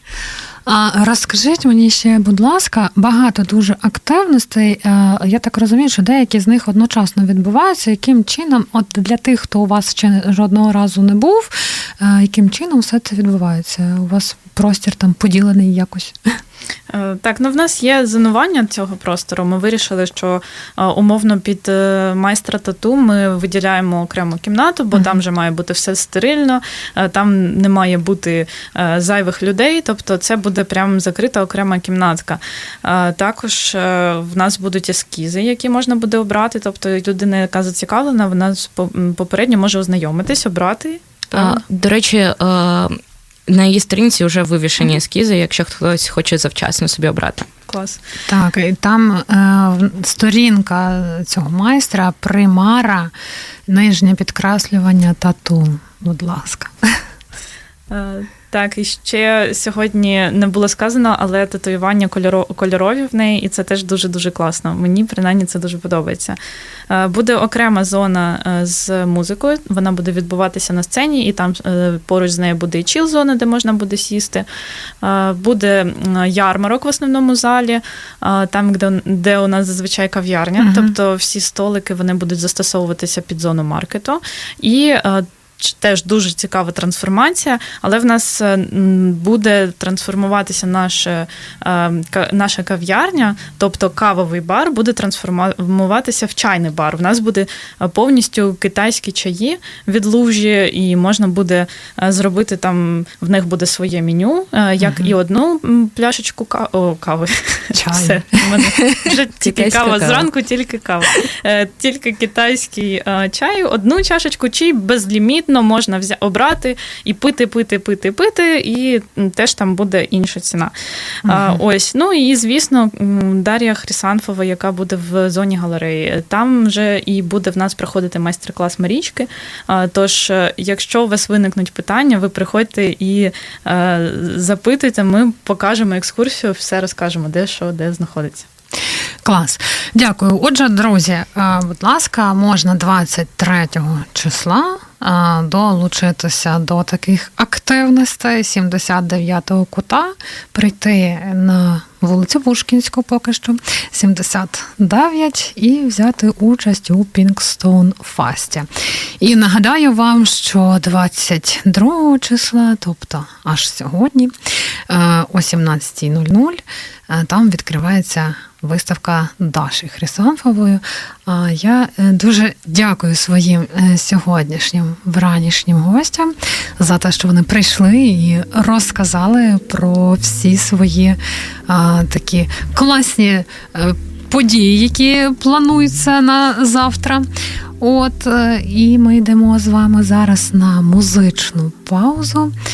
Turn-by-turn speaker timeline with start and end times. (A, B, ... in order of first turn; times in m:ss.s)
0:00.6-0:16.3 A
0:16.9-0:41.6 B
0:24.9-0:25.2 A
0:41.3-0:42.9 C
0:43.5-0:47.5 C
0:47.7-0:48.0 B
0:48.3-0:53.1 A
0:53.7-0:56.8 A
0:57.9-1:06.4 B
1:06.9-1:14.4 B
1:15.0-2:00.7 B
1:20.6-1:20.9 A
1:44.8-1:45.1 A
1:47.7-1:48.7 A
1:49.4-1:50.3 C
2:01.2-2:01.6 A
2:01.3-2:18.5 B
2:19.2-2:38.7 A
2:39.2-2:44.3 A
2:44.9-3:07.3 A
3:07.8-3:12.5 A